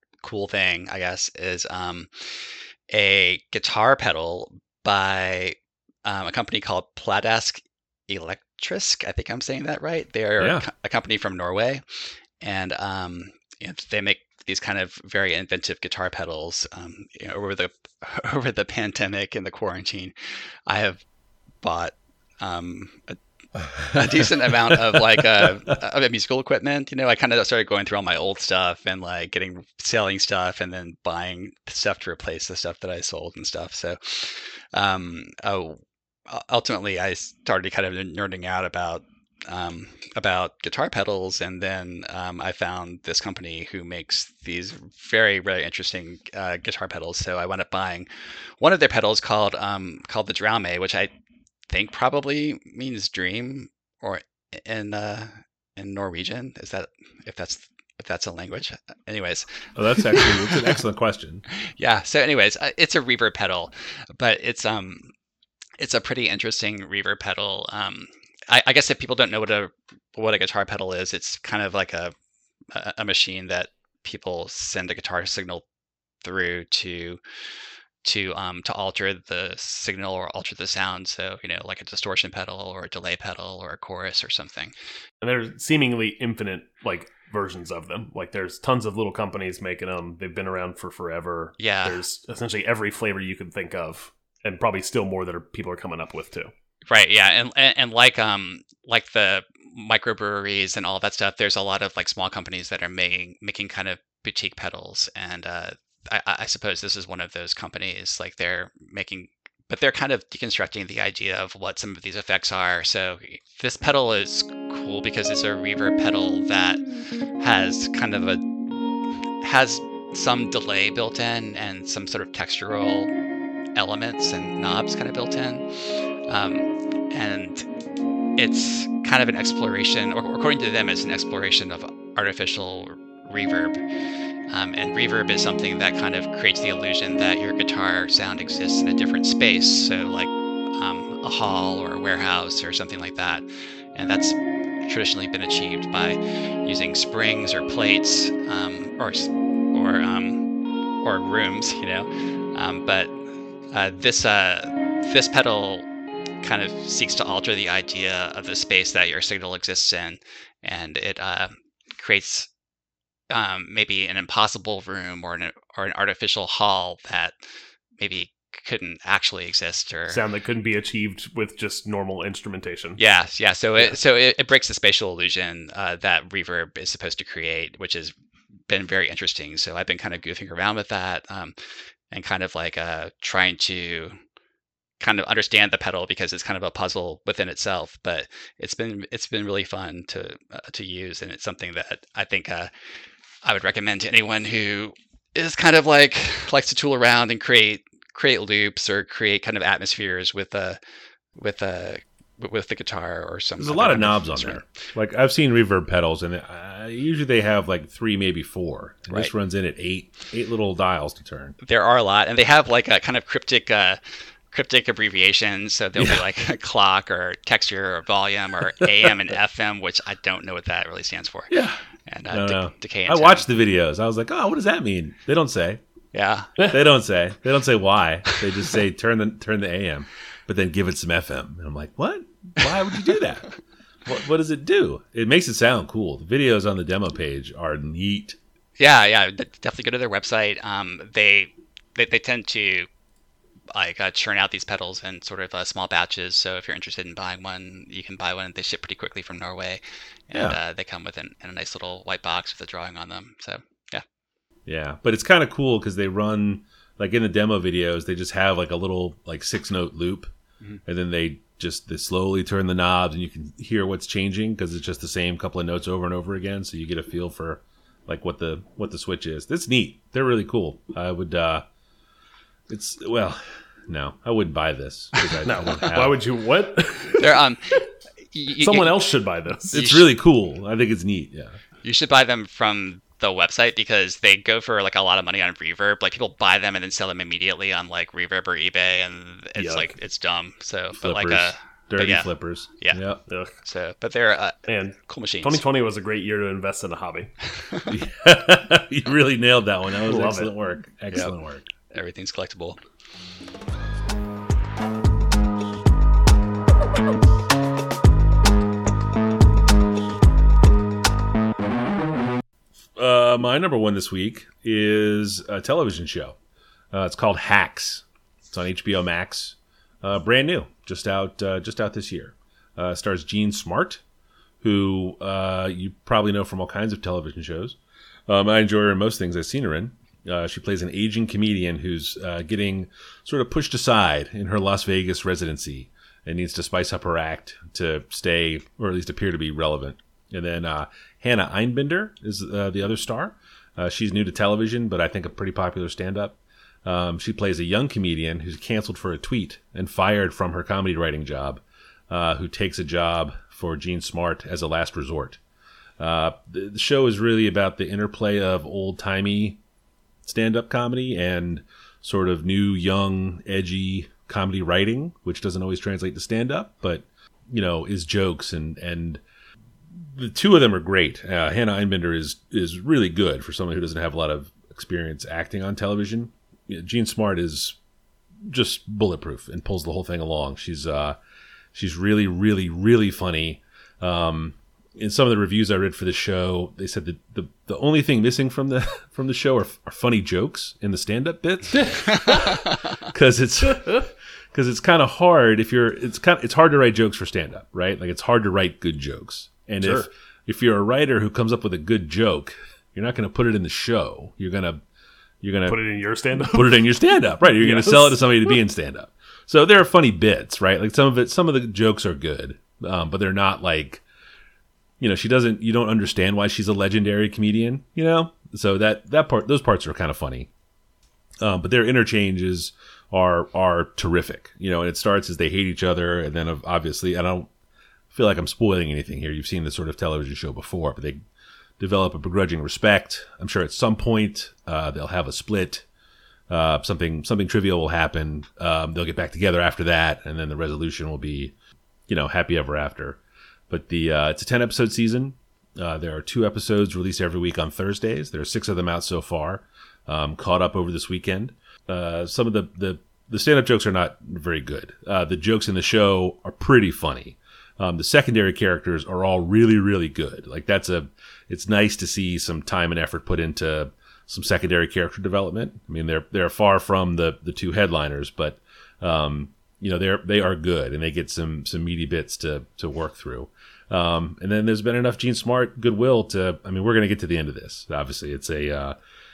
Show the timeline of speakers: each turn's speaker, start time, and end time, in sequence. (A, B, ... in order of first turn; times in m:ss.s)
0:00.2-0:20.1 A
0:10.4-0:10.6 B
0:20.7-0:21.0 A
0:21.6-0:23.2 A
0:23.8-0:48.1 A
0:24.0-0:24.7 B
0:25.4-0:25.7 B
0:48.6-0:51.1 A
0:51.7-1:00.7 A
0:59.8-1:01.4 B
1:01.6-1:05.1 A
1:05.8-1:12.1 A
1:12.7-1:15.6 A
1:16.2-1:17.2 A
1:18.0-1:24.7 A
1:25.2-1:36.5 C
1:31.6-1:32.0 A
1:36.9-1:56.8 A
1:57.4-1:58.4 A
1:59.4-2:03.1 A
2:03.8-2:07.6 A
2:08.4-2:13.8 A
2:14.5-2:30.5 A
2:31.0-2:33.2 A
2:33.7-2:35.8 A
2:36.4-2:42.5 A
2:43.3-2:47.4 A
2:48.0-2:50.2 A
2:50.1-2:53.0 C
2:53.0-2:58.1 A
2:58.7-3:01.6 A
3:02.1-3:04.2 A
3:05.0-3:12.7 A
3:13.4-3:20.8 A
3:21.4-3:24.6 A
3:23.6-3:31.6 B
3:31.6-3:34.0 A
3:34.5-3:43.4 A
3:36.0-3:36.2 B
3:41.5-3:41.8 B
3:42.3-3:45.8 B
3:46.1-3:46.6 A
3:46.7-3:53.5 B
3:54.0-3:58.4 B
3:58.8-4:02.9 A
4:03.7-4:14.0 A
4:14.7-4:20.3 B
4:20.8-4:31.6 B
4:32.7-4:36.2 B
4:35.4-4:37.4 C
4:37.1-4:39.1 A
4:38.6-4:39.8 C
4:39.7-4:41.6 B
4:39.7-4:40.1 A
4:41.8-4:53.0 A
4:49.6-4:49.8 B
4:51.0-4:53.2 B
4:53.3-4:53.6 C
4:53.6-4:55.6 A
4:54.7-4:57.3 C
4:57.9-5:01.6 B
5:00.0-5:00.5 C
5:01.9-5:02.8 A
5:13.0-5:16.4 B
5:16.9-5:24.0 B
5:24.6-5:27.8 B
5:28.3-5:55.4 B
5:56.0-5:59.6 B
6:00.2-6:09.2 B
6:10.0-6:17.8 B
6:18.4-6:21.2 B
6:21.7-6:44.8 B
6:31.7-6:32.5 C
6:32.1-6:32.7 A
6:33.7-6:34.0 C
6:39.8-6:40.1 C
6:45.4-6:45.8 B
6:45.6-6:46.9 C
6:46.4-6:54.0 B
6:47.6-6:48.5 C
6:55.0-7:00.5 B
7:01.4-7:07.5 B
7:08.1-7:11.2 B
7:11.8-7:15.8 B
7:16.5-7:21.5 B
7:22.1-7:59.0 B